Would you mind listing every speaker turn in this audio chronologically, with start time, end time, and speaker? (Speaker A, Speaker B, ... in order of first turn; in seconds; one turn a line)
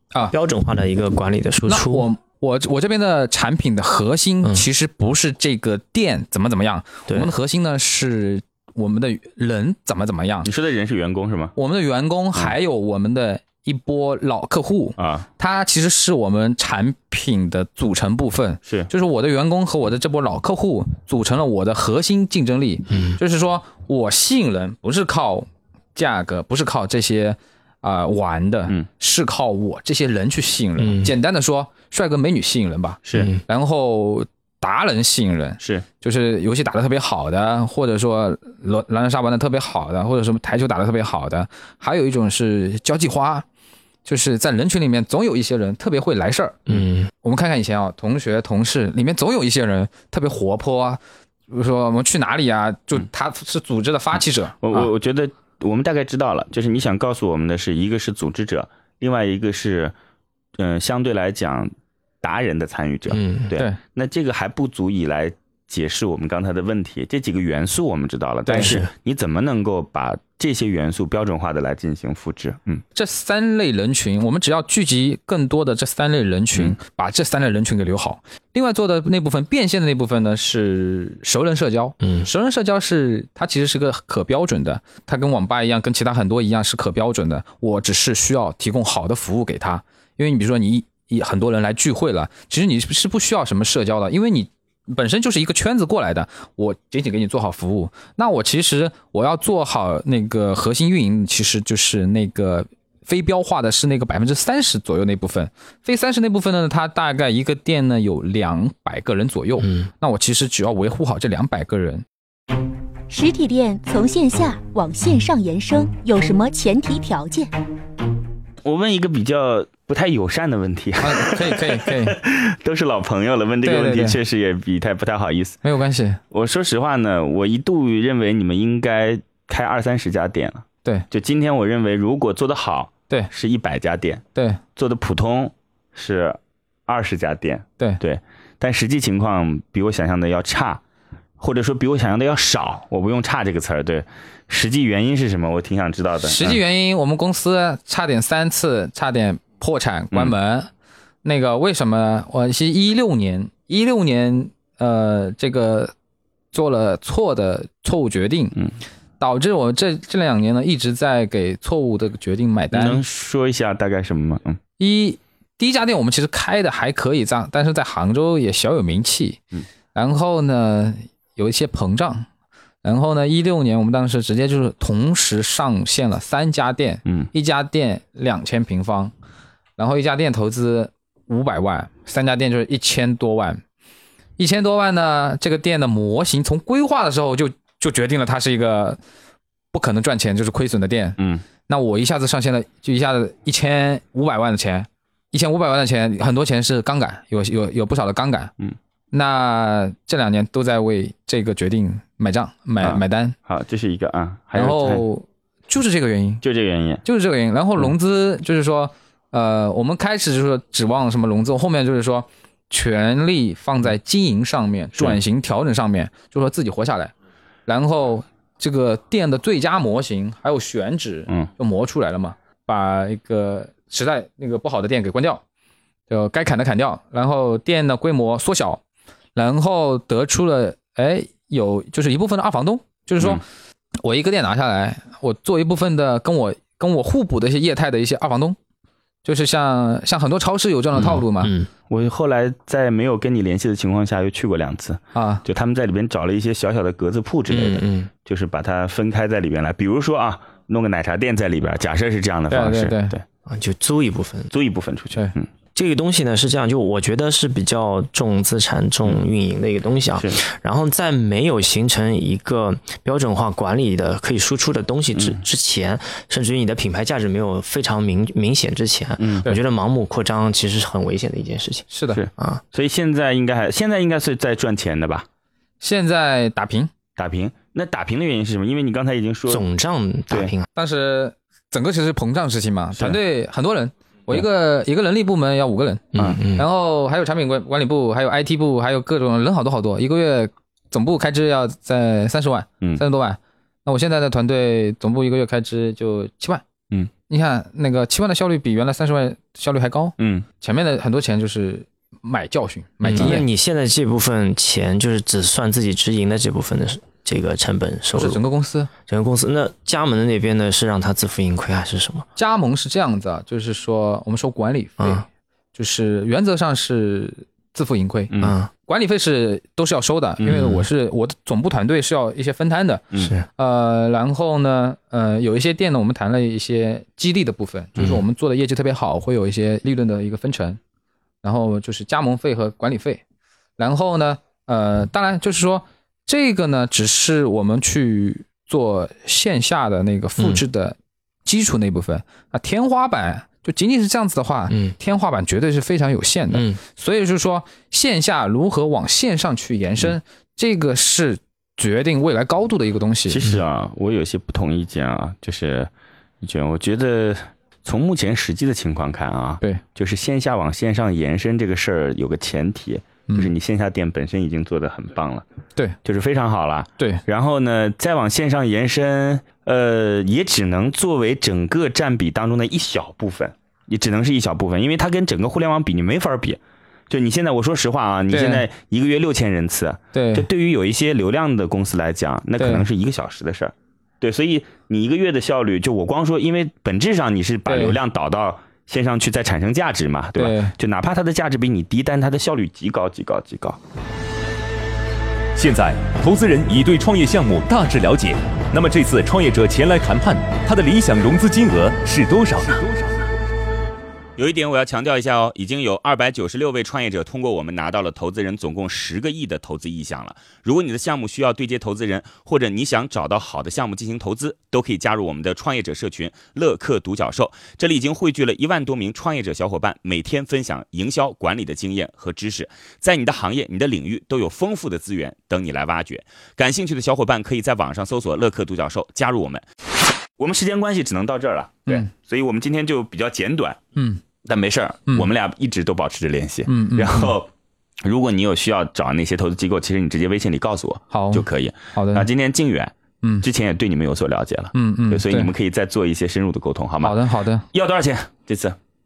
Speaker A: 0.3-2.1
Speaker B: 1.6-10.5
Speaker C: 10.4-11.5
Speaker B: 11.5-43.5
Speaker C: 15.0-15.3
Speaker A: 22.9-23.2
Speaker A: 30.8-31.1
Speaker C: 33.0-33.3
Speaker A: 33.1-33.4
Speaker C: 35.6-35.8
Speaker B: 44.0-46.6
Speaker A: 46.7-47.1
Speaker B: 47.2-54.9
Speaker C: 54.6-59.9
Speaker C: 60.6-61.7
Speaker C: 62.2-72.8
Speaker A: 63.1-63.5
Speaker B: 68.5-68.8
Speaker A: 68.5-68.9
Speaker B: 72.9-112.0
Speaker A: 82.0-82.3
Speaker A: 109.6-109.9
Speaker D: 113.1-117.5
Speaker C: 118.6-125.6
Speaker B: 121.0-122.2
Speaker B: 123.6-124.2
Speaker B: 125.6-126.2
Speaker C: 126.3-134.2
Speaker B: 134.3-134.6
Speaker C: 134.8-140.8
Speaker C: 141.4-146.6
Speaker B: 146.2-150.7
Speaker B: 151.2-155.9
Speaker B: 156.5-158.6
Speaker B: 159.2-163.0
Speaker C: 162.7-164.6
Speaker B: 164.8-169.4
Speaker B: 169.9-172.3
Speaker B: 172.8-179.1
Speaker B: 179.8-183.6
Speaker B: 184.4-189.0
Speaker B: 189.7-198.5
Speaker C: 191.2-191.4
Speaker B: 199.1-203.4
Speaker C: 202.8-205.1
Speaker B: 204.5-206.4
Speaker C: 206.4-207.0
Speaker B: 207.0-217.1
Speaker B: 217.7-225.4
Speaker B: 226.1-228.8
Speaker B: 229.3-233.4
Speaker B: 234.0-238.6
Speaker B: 239.2-241.5
Speaker A: 241.0-241.7
Speaker C: 241.9-253.2
Speaker B: 245.1-245.4
Speaker A: 247.5-248.1
Speaker B: 252.5-253.1
Speaker A: 253.4-254.5
Speaker C: 254.5-255.5
Speaker A: 255.7-272.6
Speaker C: 265.1-265.4
Speaker C: 269.2-269.4
Speaker B: 271.9-272.2
Speaker C: 272.1-275.2
Speaker B: 275.8-276.9
Speaker C: 277.2-279.6
Speaker A: 279.5-280.6
Speaker B: 280.7-296.6
Speaker A: 286.1-286.7
Speaker B: 297.3-303.4
Speaker C: 300.2-300.4
Speaker A: 303.0-308.4
Speaker B: 308.1-308.9
Speaker A: 309.1-312.2
Speaker B: 312.4-330.8
Speaker A: 315.0-315.2
Speaker A: 318.4-318.7
Speaker A: 320.4-320.9
Speaker A: 323.1-323.4
Speaker A: 328.0-328.2
Speaker B: 331.4-333.2
Speaker B: 333.8-353.4
Speaker A: 340.4-340.6
Speaker A: 344.7-344.9
Speaker A: 346.5-346.8
Speaker C: 353.3-355.9
Speaker C: 356.4-365.4
Speaker C: 366.0-393.8
Speaker B: 367.0-367.2
Speaker B: 378.3-378.7
Speaker B: 380.1-380.4
Speaker B: 382.6-382.9
Speaker B: 387.7-388.0
Speaker B: 390.4-390.7
Speaker E: 395.6-403.1
Speaker C: 404.4-429.6
Speaker C: 430.4-433.8
Speaker B: 433.9-434.2
Speaker C: 434.4-437.5
Speaker B: 436.6-437.4
Speaker C: 438.0-447.2
Speaker B: 441.1-442.3
Speaker B: 444.7-445.5
Speaker B: 447.0-447.7
Speaker C: 447.7-448.8